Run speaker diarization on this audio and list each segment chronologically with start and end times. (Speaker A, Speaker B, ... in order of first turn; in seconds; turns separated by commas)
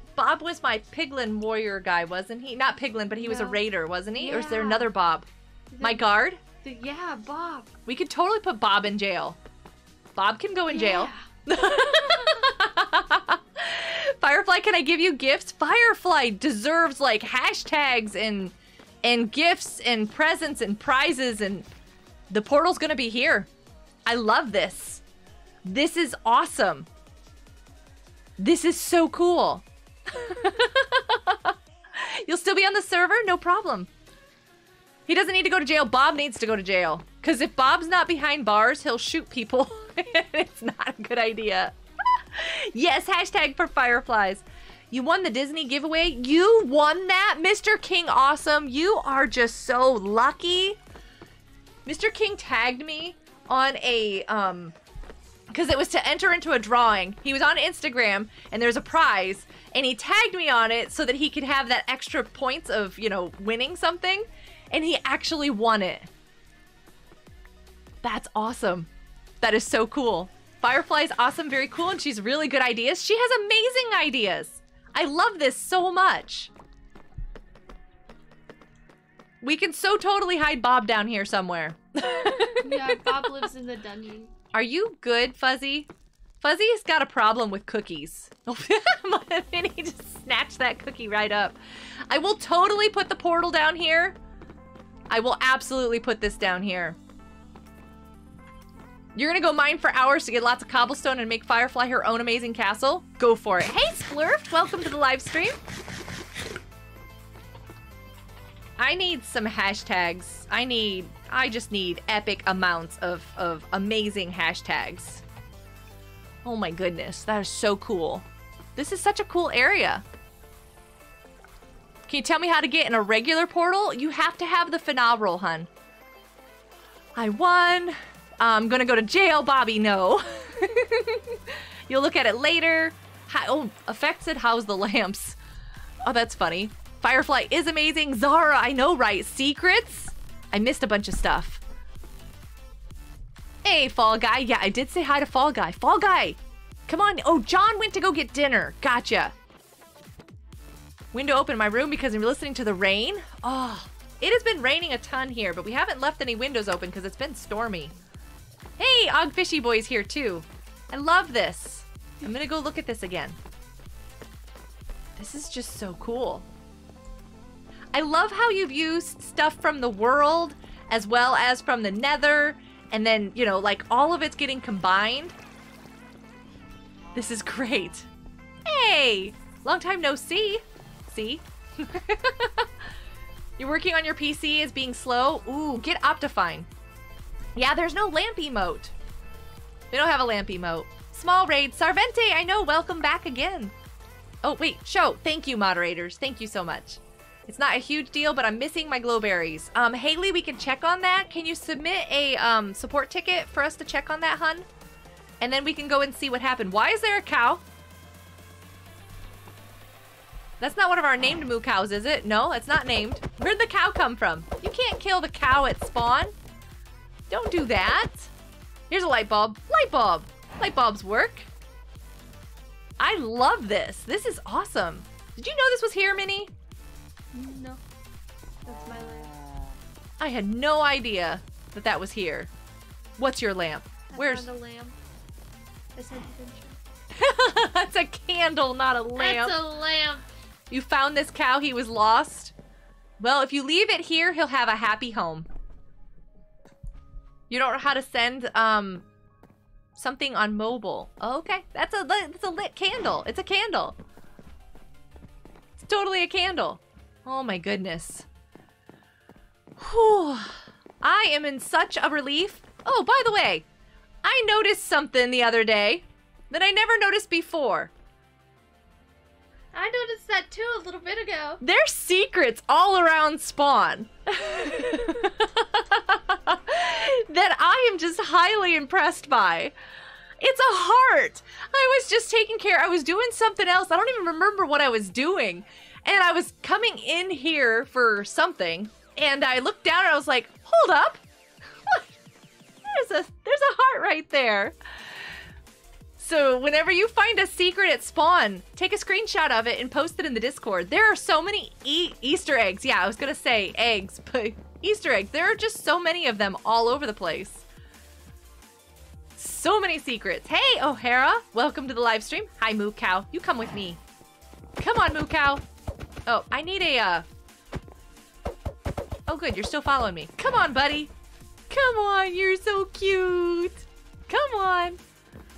Speaker A: 0.2-5.3, Speaker B: 3.2-3.6, Speaker B: 4.2-4.9, Speaker B: 5.7-7.8, Speaker A: 5.8-6.4, Speaker A: 7.9-9.4, Speaker A: 10.2-21.7, Speaker B: 10.7-12.4, Speaker A: 22.3-23.5, Speaker A: 24.1-25.0, Speaker A: 25.6-26.9, Speaker A: 28.4-33.9, Speaker A: 35.1-50.8, Speaker A: 51.9-54.8, Speaker A: 55.5-66.1, Speaker A: 68.0-68.9, Speaker A: 69.4-76.5, Speaker A: 79.4-82.8, Speaker B: 82.2-84.3, Speaker A: 84.5-85.9, Speaker A: 86.4-91.6, Speaker A: 92.1-94.2, Speaker A: 95.1-97.0, Speaker A: 99.2-105.6, Speaker A: 108.8-115.2, Speaker A: 116.4-118.2, Speaker A: 118.8-120.0, Speaker A: 122.1-125.7, Speaker A: 127.2-135.4, Speaker A: 136.0-141.6, Speaker A: 143.6-149.3, Speaker A: 151.1-157.9, Speaker A: 158.8-163.4, Speaker A: 165.2-166.5, Speaker A: 167.9-175.3, Speaker A: 177.2-178.1, Speaker A: 178.7-182.7, Speaker A: 183.6-186.7, Speaker A: 187.6-188.9, Speaker A: 189.9-193.7, Speaker A: 194.4-204.7, Speaker A: 205.4-207.6, Speaker A: 210.6-216.3, Speaker A: 217.3-218.3, Speaker A: 218.9-221.5, Speaker A: 223.0-226.5, Speaker B: 227.3-227.8, Speaker B: 228.7-229.3, Speaker A: 230.2-232.5, Speaker A: 233.2-234.5, Speaker B: 234.1-235.0, Speaker B: 236.0-236.8, Speaker A: 237.1-239.7, Speaker B: 239.2-240.3, Speaker A: 240.7-242.5, Speaker A: 243.2-245.5, Speaker A: 247.5-249.1, Speaker A: 250.0-254.0, Speaker A: 255.8-258.3, Speaker A: 259.8-263.7, Speaker A: 264.2-267.9, Speaker B: 269.7-271.6, Speaker A: 271.6-279.7, Speaker A: 280.4-291.2, Speaker A: 292.9-294.8, Speaker A: 296.2-307.6, Speaker A: 309.4-314.0, Speaker A: 314.8-315.6, Speaker A: 316.3-317.3, Speaker A: 319.3-321.1, Speaker A: 321.7-325.0